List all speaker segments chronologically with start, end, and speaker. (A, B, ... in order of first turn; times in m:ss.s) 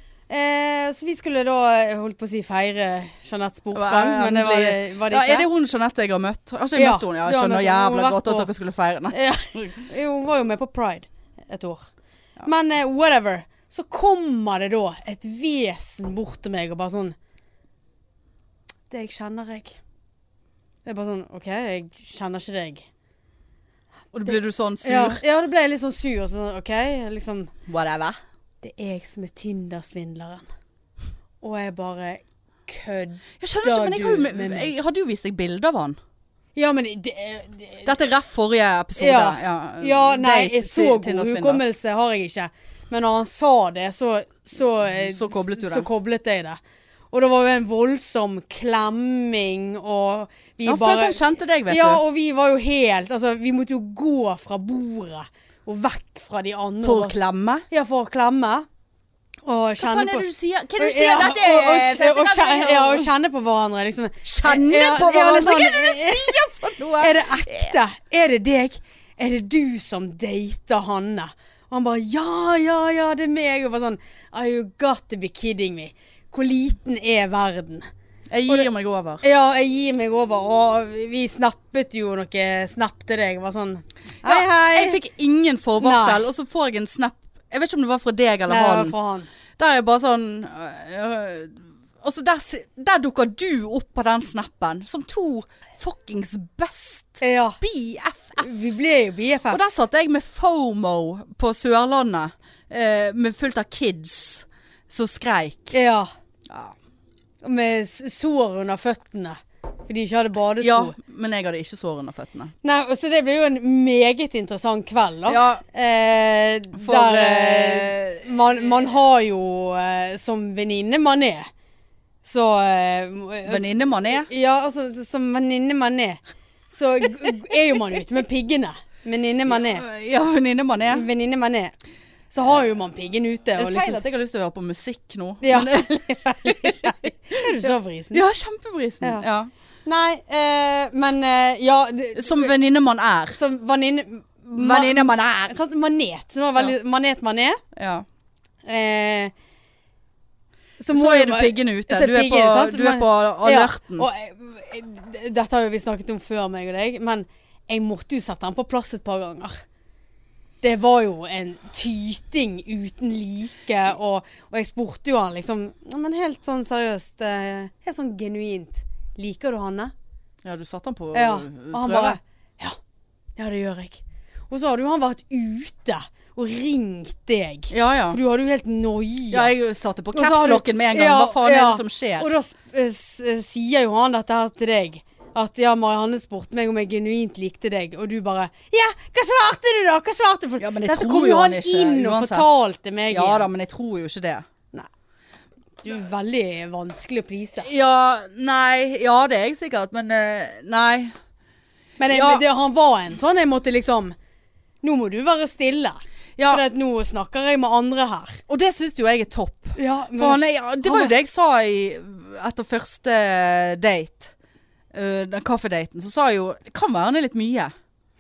0:00.3-0:05.5 A
0:03.7-0:09.8 B
0:06.8-0:08.5 A
0:09.1-0:11.9 A
0:12.4-0:17.2 A
0:18.9-0:19.8 A
0:20.8-0:22.9 A
0:24.1-0:25.2 B
0:24.3-0:27.5 A
0:27.7-0:28.2 B
0:28.6-0:30.4 A
0:31.4-0:34.8 A
0:33.4-0:36.0 B
0:36.6-0:38.0 A
0:37.8-0:41.6 B
0:39.0-0:46.6 A
0:44.9-0:45.9 B
0:47.1-0:57.1 A
0:50.6-0:52.0 B
0:56.8-0:57.6 B
0:57.7-0:58.7 A
0:59.4-1:00.2 A
0:59.8-1:03.1 B
1:00.8-1:06.5 A
1:04.2-1:07.8 B
1:07.0-1:17.9 A
1:18.3-1:19.2 B
1:19.2-1:25.0 A
1:24.2-1:28.9 B
1:25.8-1:26.2 A
1:28.5-1:29.3 A
1:29.6-1:38.8 B
1:37.2-1:37.6 A
1:38.4-1:39.8 A
1:39.5-1:45.8 B
1:45.7-1:46.1 A
1:46.5-1:46.7 B
1:47.4-1:51.0 A
1:50.6-1:52.5 B
1:52.6-2:01.5 A
1:55.3-1:55.6 B
1:56.7-1:58.3 B
2:02.2-2:09.9 A
2:03.4-2:04.3 B
2:09.5-2:11.1 B
2:10.9-2:11.8 A
2:12.3-2:14.0 A
2:13.6-2:19.5 B
2:15.4-2:18.2 A
2:19.9-2:22.5 A
2:22.2-2:23.4 B
2:23.3-2:27.6 A
2:24.6-2:25.6 B
2:27.8-2:28.1 B
2:28.6-2:29.3 A
2:30.8-2:39.6 A
2:30.9-2:34.1 B
2:40.6-2:49.9 A
2:50.4-2:52.2 B
2:51.1-2:52.8 A
2:53.4-2:59.5 A
2:57.7-2:58.2 B
2:59.3-3:02.3 B
3:00.1-3:13.5 A
3:10.6-3:12.5 B
3:13.1-3:14.4 B
3:15.8-3:17.7 A
3:17.6-3:21.2 B
3:22.0-3:24.1 A
3:22.1-3:22.4 B
3:24.8-3:28.4 A
3:26.4-3:26.6 B
3:28.5-3:34.3 B
3:29.8-3:31.1 A
3:34.9-3:37.7 B